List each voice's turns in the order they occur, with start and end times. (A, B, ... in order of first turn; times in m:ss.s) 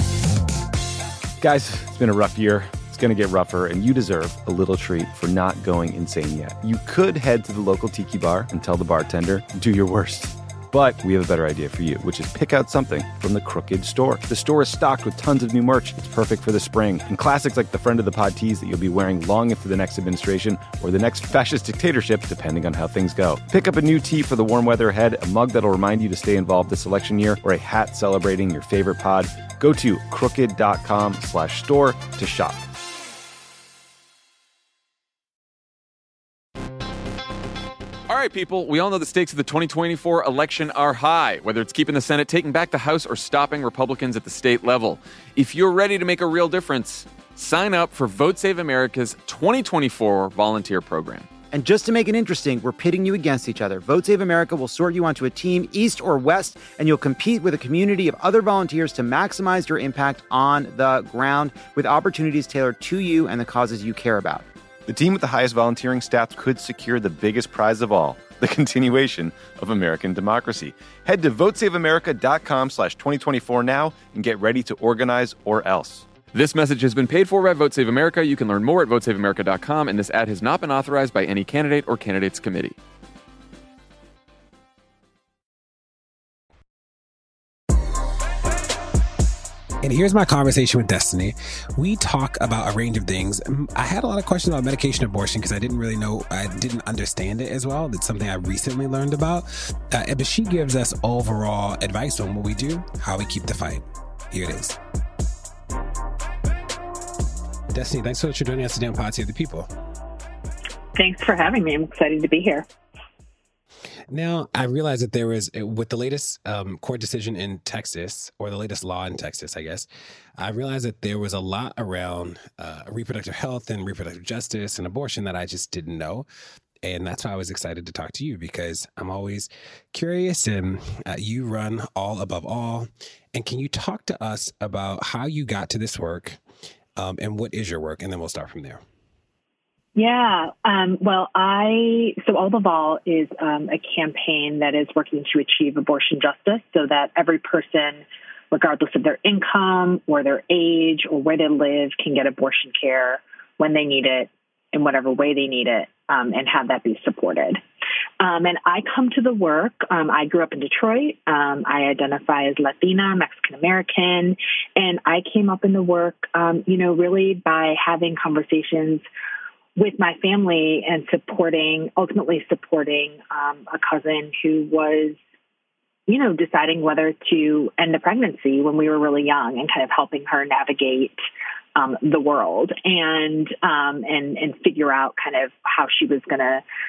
0:01.4-0:32.6 A
0:38.1-0:51.3 B
0:51.5-1:04.4 C
1:04.9-1:16.1 A
1:16.3-1:22.8 B
1:29.8-1:44.8 D
1:47.7-1:49.7 D
1:51.0-1:52.7 E
1:54.1-1:59.9 D
2:00.4-2:06.3 D
2:06.8-2:16.4 D
2:17.0-2:18.8 D
2:20.0-2:37.6 E
2:38.2-2:49.1 E
2:49.8-2:55.2 E
2:56.1-3:01.2 E
3:01.8-3:06.6 E